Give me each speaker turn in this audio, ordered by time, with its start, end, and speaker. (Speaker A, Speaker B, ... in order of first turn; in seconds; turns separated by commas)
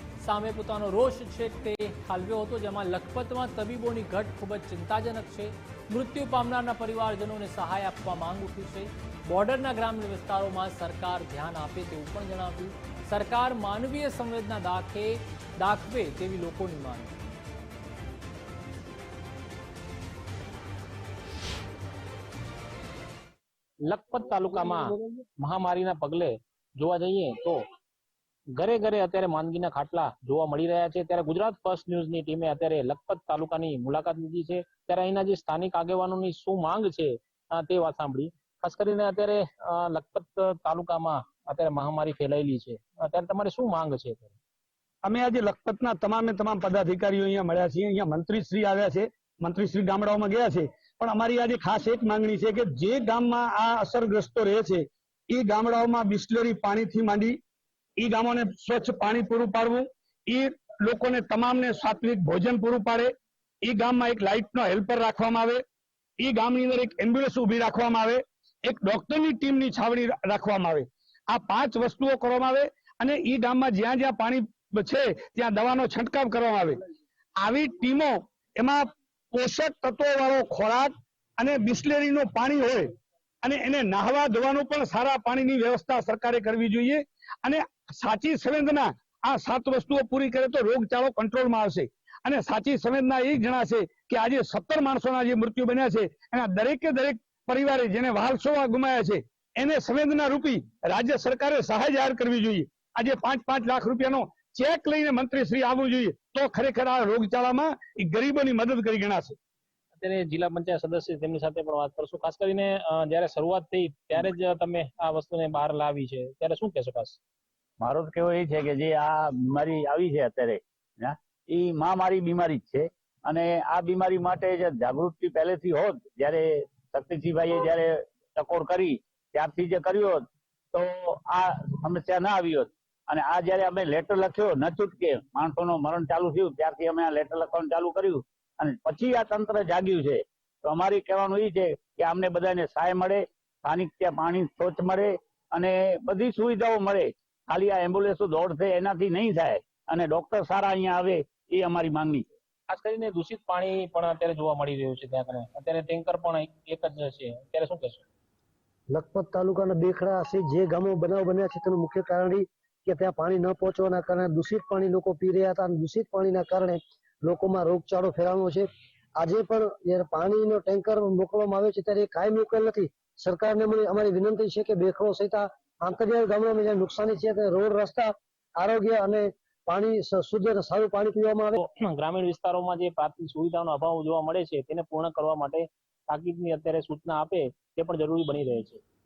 Speaker A: 0.2-17.1, Speaker B: 23.9-27.6, Speaker C: 24.7-25.1, Speaker B: 28.6-44.4, Speaker D: 45.0-57.4, Speaker D: 58.0-63.1, Speaker D: 63.6-65.6, Speaker D: 66.2-76.8, Speaker D: 77.4-82.9, Speaker D: 83.4-109.4, Speaker B: 110.0-117.2, Speaker E: 117.8-152.2, Speaker B: 152.7-158.0, Speaker C: 158.9-168.7, Speaker C: 169.2-181.6, Speaker B: 181.6-188.8